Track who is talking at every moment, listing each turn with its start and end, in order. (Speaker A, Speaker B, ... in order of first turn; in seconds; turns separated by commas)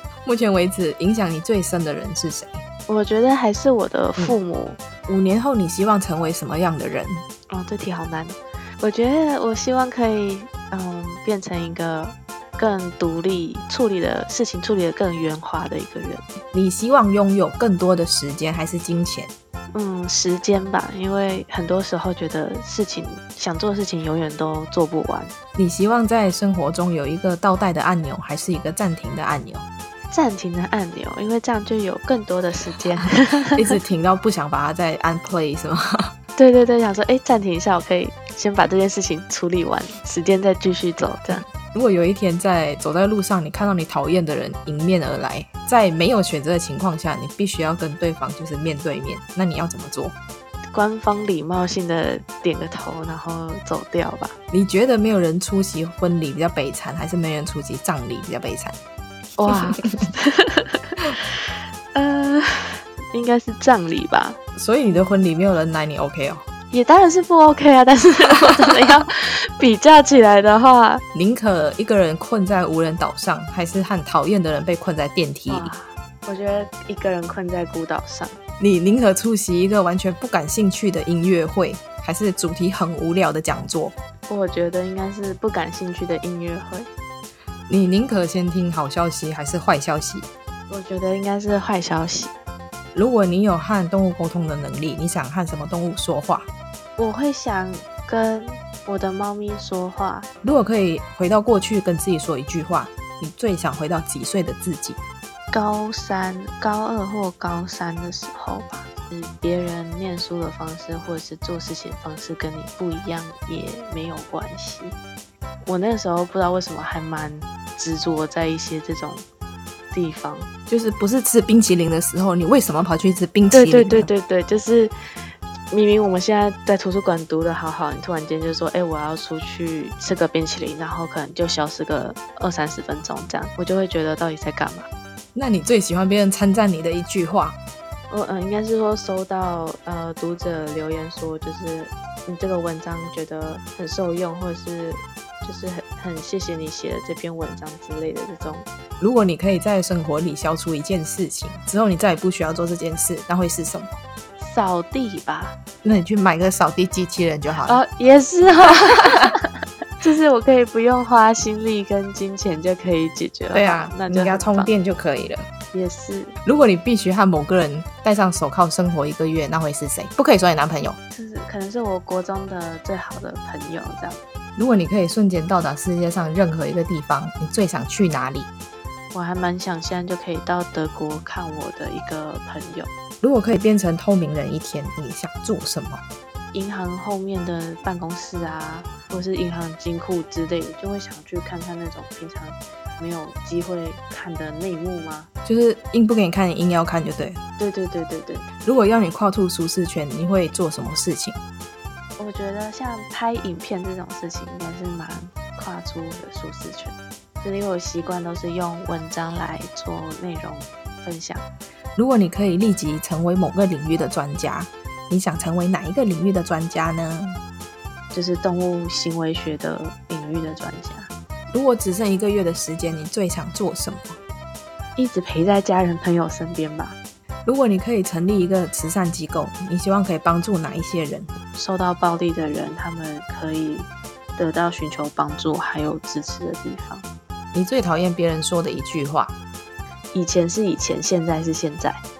Speaker A: 0.2-2.6, Speaker B: 2.9-4.8, Speaker A: 5.0-7.2, Speaker B: 7.5-16.2, Speaker A: 16.5-19.3, Speaker B: 19.7-25.3, Speaker A: 25.5-29.6, Speaker B: 30.1-33.5, Speaker A: 33.5-36.1, Speaker B: 36.4-41.4, Speaker A: 41.3-50.1, Speaker B: 50.7-54.3, Speaker A: 54.5-58.8, Speaker B: 59.4-61.2, Speaker B: 61.9-64.4, Speaker A: 64.5-66.4, Speaker B: 66.7-71.0, Speaker A: 71.1-75.7, Speaker B: 75.5-78.3, Speaker A: 78.6-83.9, Speaker B: 84.3-86.9, Speaker A: 87.7-90.3, Speaker B: 90.7-92.3, Speaker A: 92.9-96.5, Speaker B: 97.0-100.3, Speaker A: 100.4-105.0, Speaker B: 105.5-115.0, Speaker B: 115.7-119.2, Speaker B: 119.9-120.5, Speaker A: 120.7-124.1, Speaker B: 123.5-124.9, Speaker B: 125.7-134.9, Speaker A: 135.3-137.6, Speaker B: 138.1-148.7, Speaker A: 149.0-154.0, Speaker B: 154.4-155.5, Speaker A: 155.8-157.8, Speaker B: 157.6-164.7, Speaker A: 163.5-165.4, Speaker B: 165.7-166.3, Speaker A: 166.4-171.0, Speaker B: 171.1-174.2, Speaker A: 174.6-178.5, Speaker B: 179.1-182.9, Speaker A: 183.2-186.0, Speaker B: 186.5-195.3, Speaker A: 195.4-197.4, Speaker B: 197.6-198.5, Speaker A: 198.6-201.4, Speaker B: 202.2-211.4, Speaker A: 211.9-217.4, Speaker B: 218.1-221.1, Speaker A: 221.5-224.2, Speaker B: 224.9-226.9, Speaker A: 227.4-231.3, Speaker B: 231.5-237.0, Speaker A: 237.5-239.3, Speaker B: 240.1-242.0